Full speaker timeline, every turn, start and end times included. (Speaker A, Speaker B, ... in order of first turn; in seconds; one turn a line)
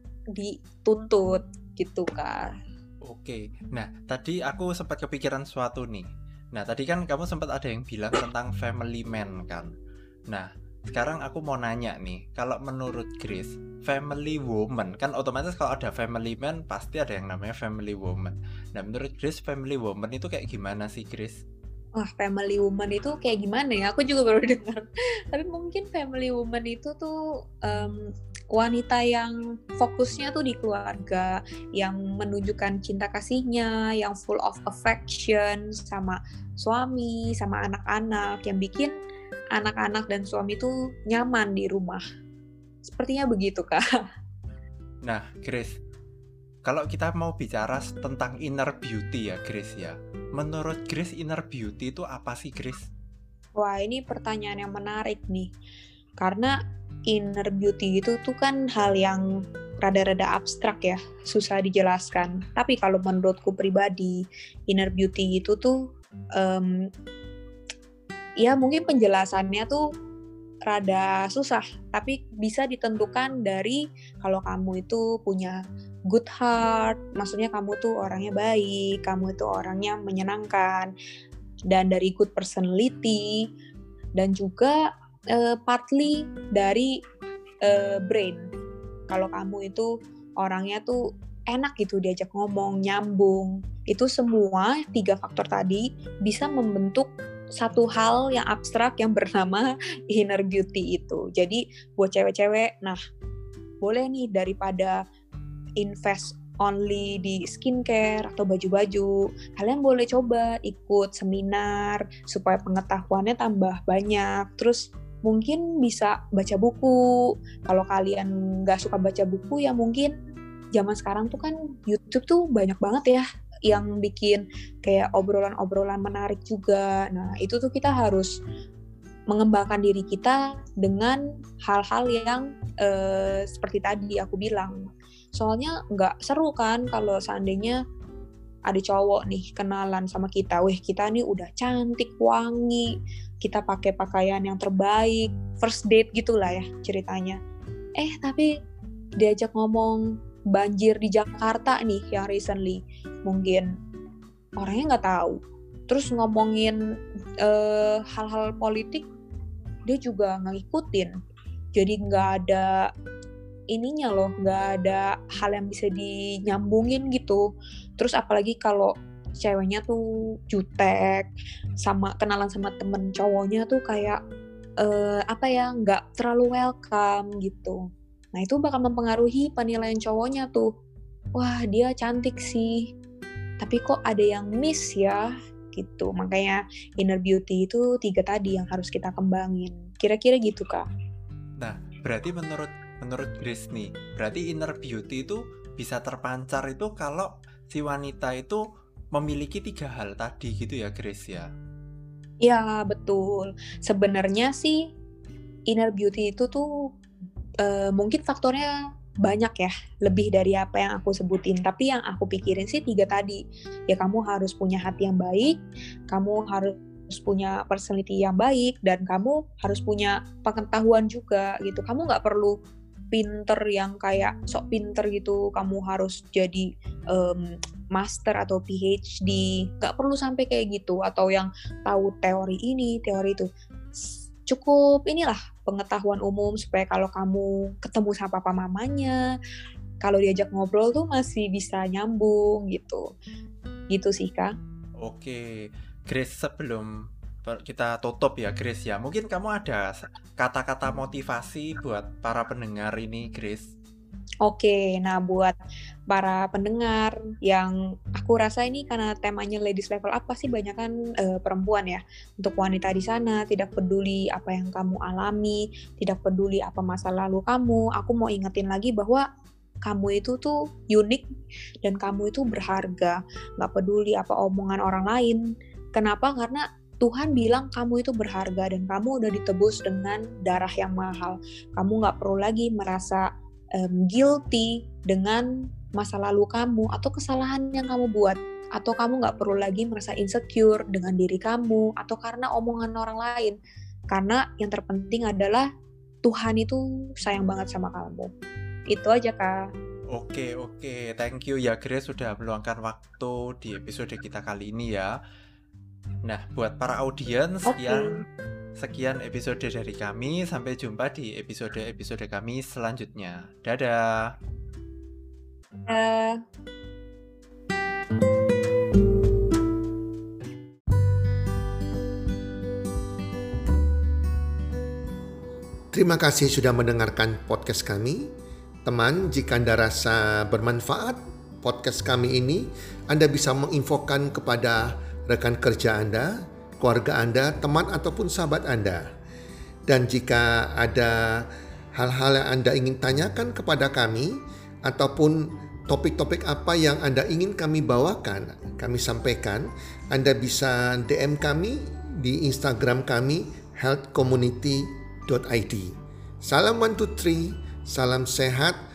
Speaker A: 0.4-2.5
Speaker B: 3.0-9.7
Speaker B: 10.3-21.4
Speaker A: 22.0-38.9
Speaker A: 39.5-42.0
Speaker A: 42.9-43.8
Speaker B: 45.0-45.8
Speaker B: 46.6-52.9
Speaker A: 53.6-55.5
Speaker A: 56.2-56.5
Speaker A: 57.1-59.3
Speaker A: 59.8-65.8
Speaker A: 66.4-66.9
Speaker A: 68.4-69.8
Speaker A: 70.7-75.6
Speaker A: 76.1-80.9
Speaker A: 81.7-83.4
Speaker A: 84.2-84.8
Speaker A: 85.3-87.0
Speaker A: 87.6-88.5
Speaker A: 89.1-91.0
Speaker A: 91.5-103.0
Speaker A: 103.8-105.0
Speaker A: 105.8-120.1
Speaker A: 120.8-128.3
Speaker A: 129.3-134.8
Speaker A: 135.4-137.8
Speaker A: 138.7-142.9
Speaker A: 143.4-147.4
Speaker A: 148.0-148.5
Speaker A: 149.2-150.0
Speaker A: 150.5-153.7
Speaker A: 154.6-159.1
Speaker A: 159.9-161.1
Speaker A: 161.8-162.9
Speaker A: 163.7-167.4
Speaker A: 168.0-171.3
Speaker A: 171.8-174.2
Speaker A: 174.8-177.8
Speaker A: 178.4-180.7
Speaker A: 181.4-182.9
Speaker A: 183.6-190.9
Speaker B: 191.6-198.6
Speaker B: 199.1-201.5
Speaker A: 202.4-204.8
Speaker A: 205.7-206.7
Speaker A: 207.6-208.7
Speaker A: 209.2-215.6
Speaker A: 216.1-222.6
Speaker A: 223.1-233.5
Speaker A: 234.5-239.2
Speaker A: 240.0-243.0
Speaker A: 243.9-244.5
Speaker B: 245.0-246.9
Speaker B: 247.4-253.7
Speaker A: 254.4-255.6
Speaker A: 256.1-269.3
Speaker A: 269.9-271.2
Speaker A: 271.8-275.4
Speaker A: 276.0-293.6
Speaker A: 294.1-295.7
Speaker A: 296.2-298.3
Speaker A: 298.9-299.6
Speaker B: 300.1-305.1
Speaker B: 306.3-308.2
Speaker A: 307.7-308.1
Speaker B: 308.8-314.3
Speaker A: 315.9-316.4
Speaker C: 325.9-328.3
Speaker C: 328.9-339.1
Speaker C: 339.9-341.1
Speaker C: 342.0-344.3
Speaker C: 344.9-358.8